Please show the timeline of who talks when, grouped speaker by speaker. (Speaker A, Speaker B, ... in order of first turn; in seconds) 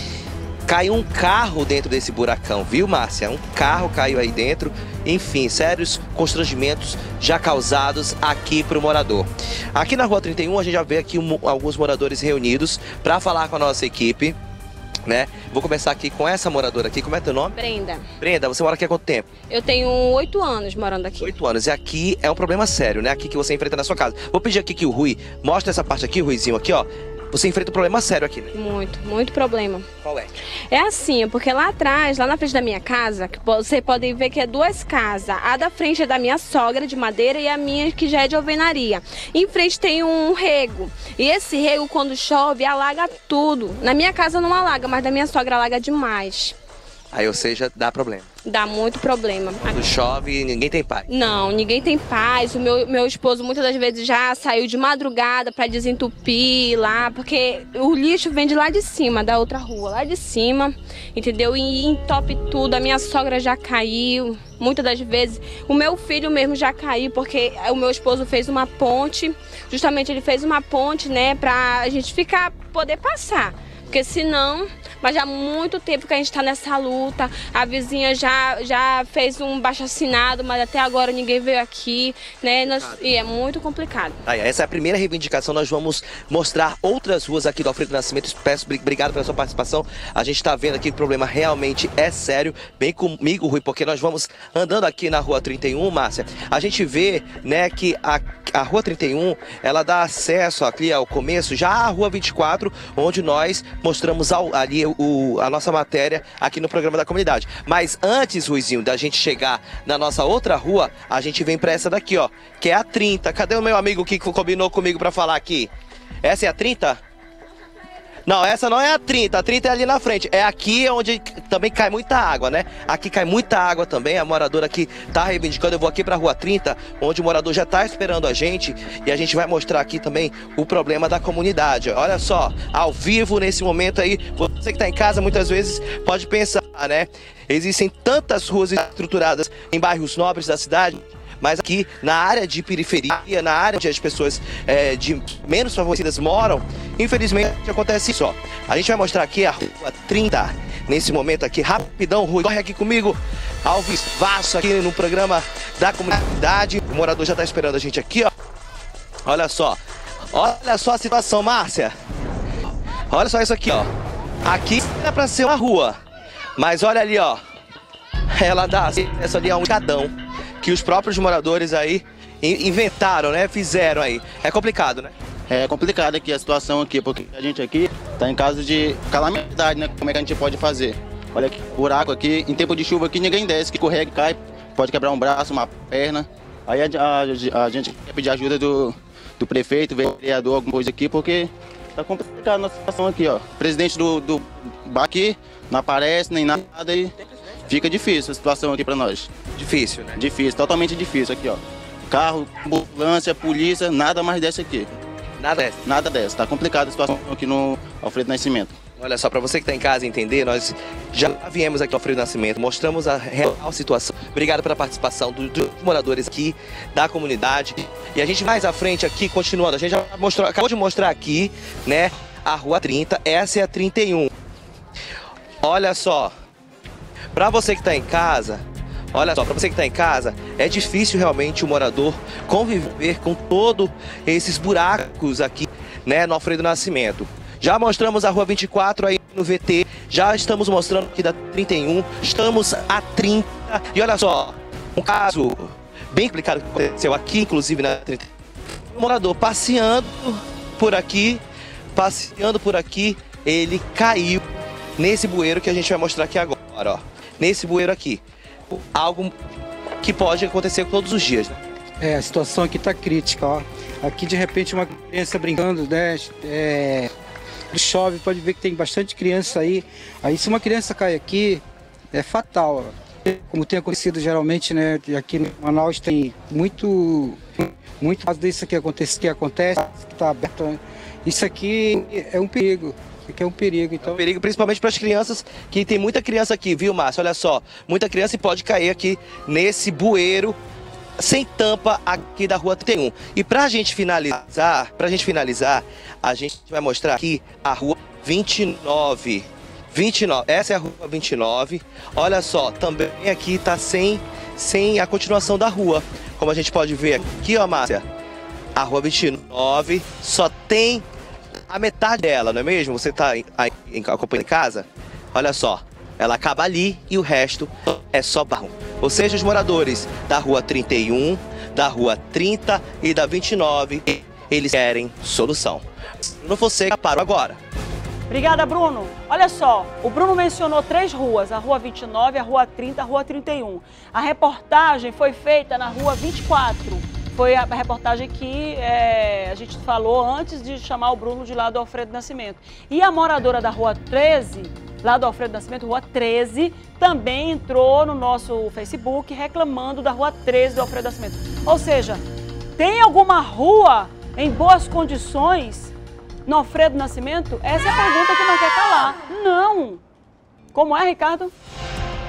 Speaker A: 0.7-14.4, 15.1-17.6, 18.2-19.3, 21.2-28.5, 30.0-30.3, 47.1-48.3, 49.6-51.1, 82.6-83.0, 84.2-115.7, 116.2-117.0, 118.2-158.3, 159.2-161.9, 163.1-163.9, 164.4-166.0, 166.6-167.4, 168.3-175.1, 199.5-200.2, 205.4-205.8, 209.0-224.3, 225.6-226.3, 227.3-248.3, 248.9-254.4, 255.0-259.3, 260.0-261.6, 284.0-290.6, 291.2-308.0, 308.8-311.1, 311.7-327.6
Speaker B: 17.5-18.1, 19.5-21.3, 28.5-29.9, 30.7-46.5, 48.4-49.9, 51.1-84.2
Speaker C: 175.5-197.1, 197.7-199.3, 200.2-204.9, 205.8-208.7
Speaker D: 262.0-267.1, 267.7-284.2
Speaker E: 328.3-352.2, 352.8-355.9, 356.5-360.0, 360.7-361.5